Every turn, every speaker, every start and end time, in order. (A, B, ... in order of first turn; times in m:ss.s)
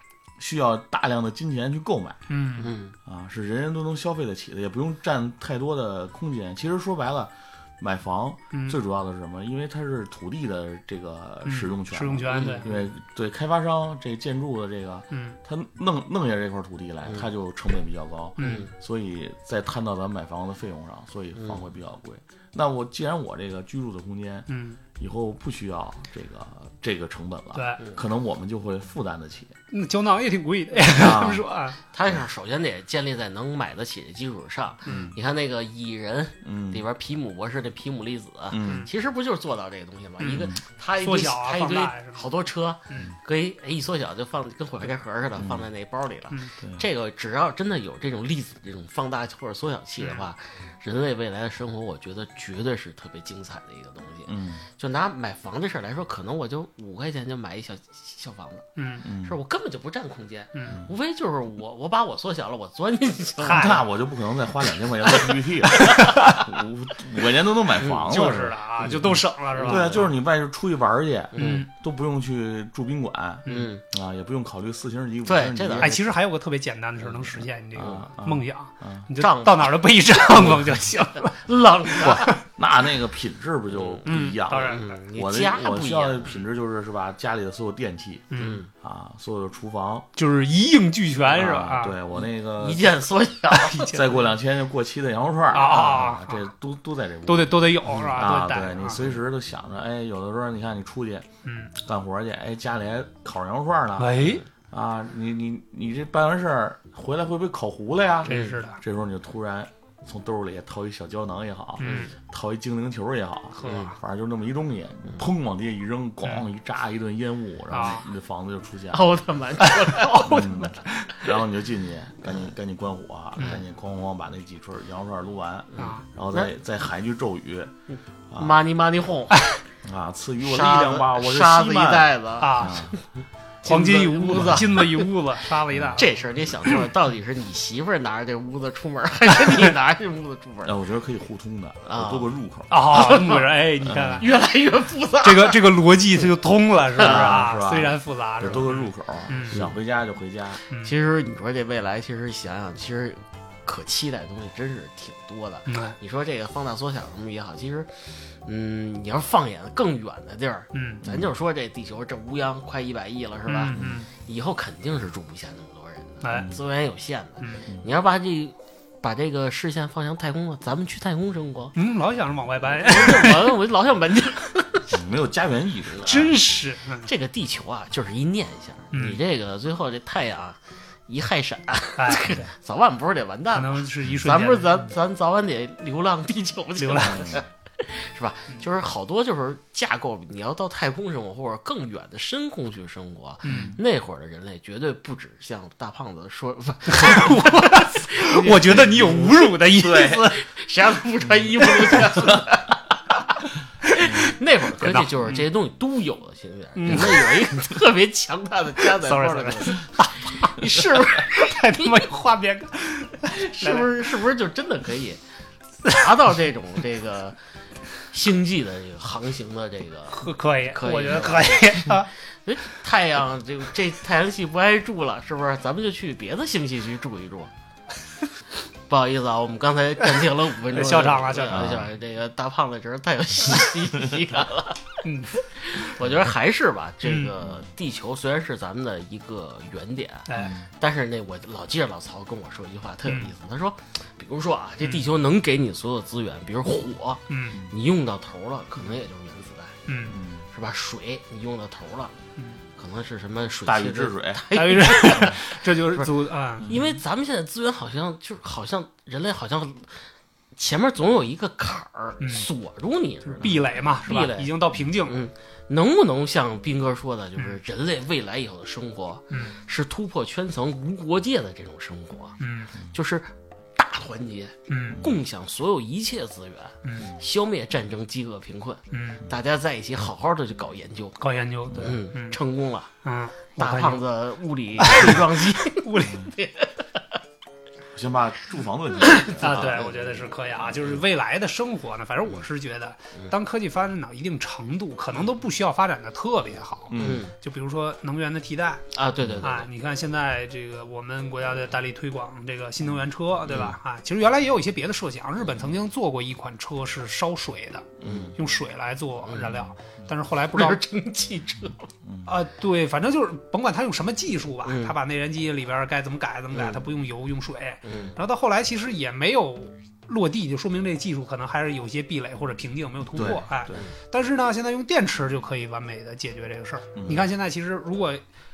0:00.4-0:02.3 A
0:02.3-0:02.7 B
0:02.6-0:03.0 C
0:03.1-0:29.6 A
0:08.5-0:08.8 B
0:11.4-0:12.7 B
0:12.3-0:12.8 C
0:15.1-0:15.4 B
0:18.4-0:18.7 B
0:18.4-0:18.7 C
0:21.4-0:21.7 C
0:24.5-0:24.8 B
0:27.6-0:27.8 B
0:29.7-0:31.8 B
0:30.9-0:31.4 A
0:31.9-0:58.7 C
0:34.9-0:35.1 B
0:34.9-0:35.2 A
0:36.4-0:36.8 A
0:38.5-0:38.9 A
0:38.6-0:38.9 B
0:40.3-0:40.6 A
0:40.3-0:42.2 B
0:42.9-0:43.1 B
0:45.4-0:45.7 A
0:54.3-0:54.7 A
0:58.8-0:59.1 B
0:59.0-0:59.4 A
0:59.2-1:03.8 C
1:03.4-1:03.8 B
1:03.5-1:15.9 A
1:05.9-1:06.4 C
1:05.9-1:06.4 B
1:07.8-1:08.1 C
1:08.0-1:10.1 B
1:08.8-1:10.0 C
1:11.4-1:11.7 C
1:11.4-1:11.7 B
1:13.5-1:13.8 C
1:15.3-1:16.2 C
1:15.8-1:21.4 B
1:17.2-1:19.0 A
1:19.2-1:19.7 C
1:20.3-1:22.3 C
1:22.0-1:30.1 A
1:22.0-1:22.4 B
1:23.7-1:24.1 C
1:24.0-1:25.0 B
1:24.7-1:26.4 C
1:28.3-1:28.6 B
1:28.4-1:28.7 C
1:30.2-1:32.0 B
1:31.2-1:32.9 A
1:32.1-1:34.0 C
1:33.6-1:34.2 B
1:33.9-1:59.0 A
1:35.5-1:36.4 B
1:37.3-1:39.0 B
1:37.9-1:38.2 C
1:41.4-1:41.7 B
1:44.0-1:44.4 B
1:48.2-1:48.8 B
1:48.3-1:48.6 C
1:51.8-1:52.1 B
1:51.8-1:52.1 C
1:53.6-1:54.0 B
1:53.6-1:53.9 C
1:57.7-1:58.0 B
1:58.9-2:00.9 C
2:00.2-2:07.7 A
2:05.7-2:06.5 C
2:05.8-2:06.0 B
2:08.0-2:09.6 C
2:08.3-2:08.6 A
2:09.8-2:12.9 A
2:10.4-2:13.0 C
2:12.4-2:12.9 B
2:13.6-2:15.1 C
2:13.6-2:16.1 B
2:14.4-2:14.6 A
2:15.7-2:16.0 A
2:16.0-2:20.8 C
2:20.6-2:23.1 A
2:21.9-2:22.3 C
2:22.7-2:24.3 B
2:22.9-2:23.5 C
2:23.8-2:24.2 A
2:24.2-2:25.6 C
2:25.2-2:29.6 B
2:27.0-2:27.4 C
2:27.0-2:30.6 A
2:30.8-2:51.8 C
2:35.7-2:36.0 B
2:40.7-2:41.0 B
2:41.0-2:41.3 A
2:43.5-2:44.1 B
2:43.7-2:44.1 A
2:46.2-2:46.6 B
2:46.3-2:46.6 A
2:51.8-2:53.5 B
2:52.7-2:54.9 C
2:54.9-2:56.4 A
2:56.0-2:57.1 B
2:57.0-3:19.3 C
2:58.9-2:59.2 B
3:02.0-3:02.5 B
3:03.5-3:04.8 B
3:06.8-3:07.3 B
3:07.1-3:07.4 A
3:13.4-3:13.8 B
3:13.5-3:13.8 A
3:16.9-3:20.4 B
3:18.8-3:20.3 A
3:20.2-3:22.7 C
3:22.1-3:22.4 A
3:23.9-3:32.0 C
3:24.1-3:24.3 A
3:24.8-3:25.4 B
3:26.8-3:27.5 B
3:29.0-3:34.1 B
3:33.2-3:35.2 C
3:35.8-3:37.4 C
3:38.1-3:47.5 C
3:40.1-3:42.1 B
3:48.9-3:55.0 C
3:50.7-3:51.8 B
3:51.5-3:51.9 A
3:55.0-3:55.4 B
3:55.6-4:09.8 C
3:57.0-3:57.3 B
4:00.3-4:00.6 B
4:00.3-4:00.7 A
4:03.0-4:03.3 B
4:07.3-4:07.6 B
4:09.9-4:10.2 B
4:10.1-4:10.5 A
4:10.5-4:12.2 C
4:12.8-4:16.1 C
4:13.6-4:14.4 A
4:14.5-4:16.7 B
4:16.6-4:17.0 A
4:16.6-4:24.5 C
4:22.2-4:22.5 B
4:23.3-4:25.2 B
4:25.0-4:32.4 C
4:29.3-4:29.6 B
4:32.4-4:32.8 B
4:32.9-4:41.2 C
4:34.7-4:35.0 B
4:36.8-4:37.1 B
4:38.9-4:39.2 B
4:41.2-4:42.4 B
4:41.8-4:42.9 C
4:43.0-4:44.0 B
4:43.6-4:47.0 C
4:44.8-4:46.3 B
4:47.9-4:49.9 A
4:49.1-4:58.9 B
4:49.2-4:51.0 C
4:56.9-4:57.3 A
4:57.0-4:57.3 C
4:58.9-4:59.7 C
4:59.4-5:10.8 B
5:03.5-5:03.8 C
5:08.0-5:08.4 C
5:08.0-5:08.3 A
5:09.3-5:09.6 C
5:10.5-5:11.9 C
5:12.0-5:12.3 A
5:12.2-5:28.2 B
5:14.6-5:15.0 C
5:16.5-5:16.9 C
5:17.8-5:18.2 C
5:23.1-5:23.9 A
5:27.0-5:27.3 A